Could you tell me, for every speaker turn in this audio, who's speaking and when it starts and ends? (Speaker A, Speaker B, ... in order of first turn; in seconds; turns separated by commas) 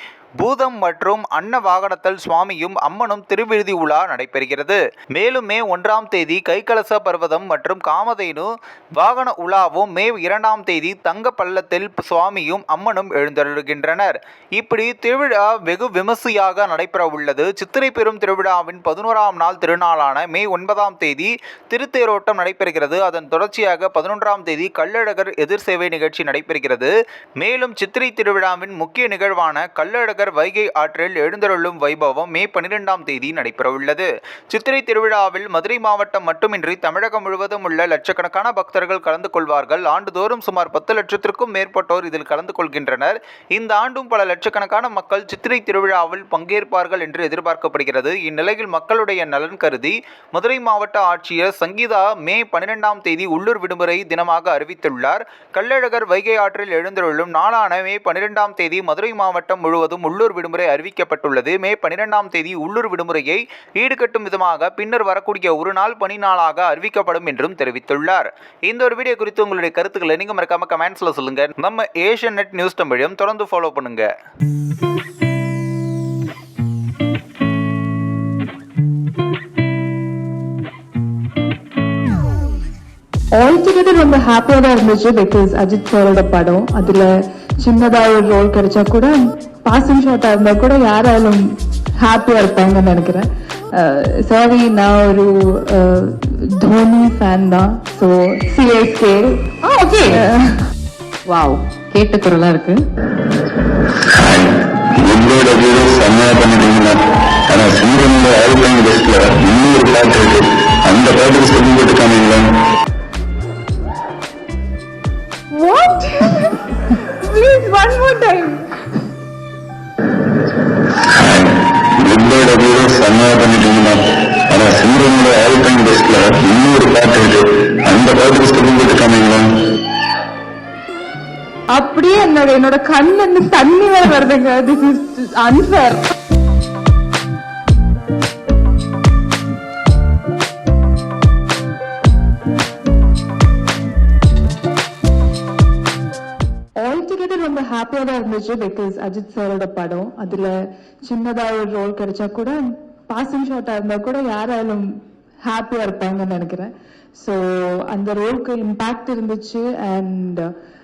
Speaker A: 0.4-74.1, Speaker B: 83.3-89.1, Speaker B: 89.6-91.4, Speaker B: 92.0-100.6, Speaker C: 99.8-100.3, Speaker C: 101.3-102.8, Speaker D: 104.1-112.5, Speaker B: 115.5-118.8, Speaker D: 121.0-129.5, Speaker B: 131.7-136.0, Speaker B: 146.8-152.6, Speaker B: 153.1-154.9, Speaker B: 155.4-160.5